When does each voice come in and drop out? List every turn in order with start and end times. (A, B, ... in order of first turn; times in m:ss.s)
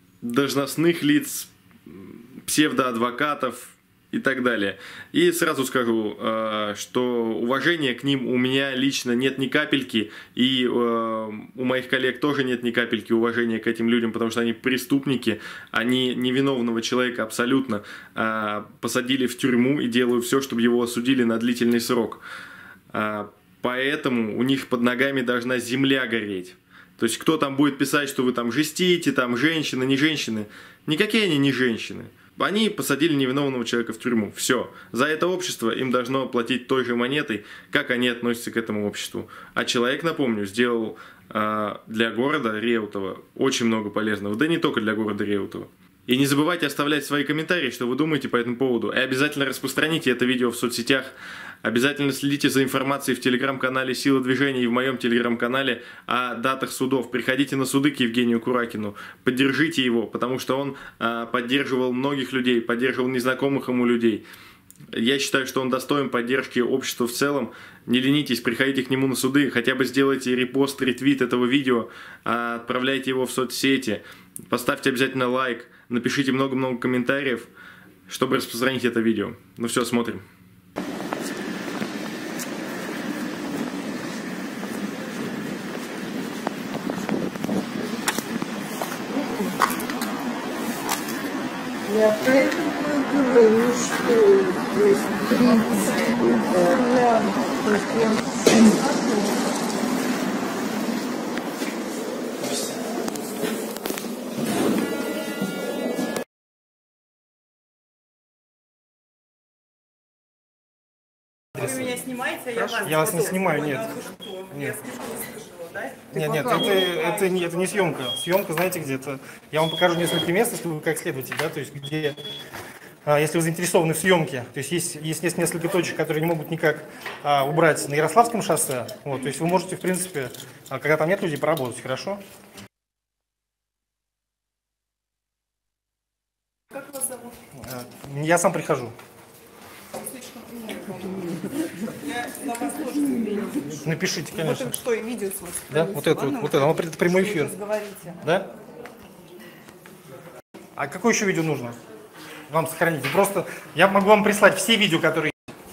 0:00.2-0:22.2 A
0:22.9-1:04.2 A
1:04.9-1:17.5 A
1:18.1-1:20.2 A
1:31.9-1:39.2 B
1:51.6-1:51.9 C
1:51.7-1:57.0 D
1:52.8-1:53.9 C
1:54.5-1:54.8 C
1:56.1-2:02.2 C
2:03.1-2:12.2 C
2:17.7-2:18.9 C
2:20.2-2:21.2 D
2:21.9-2:23.7 D
2:23.7-2:24.7 C
2:24.4-2:28.2 D
2:25.7-2:27.5 C
2:28.2-2:28.5 C
2:30.8-2:31.8 C
2:32.5-2:35.3 C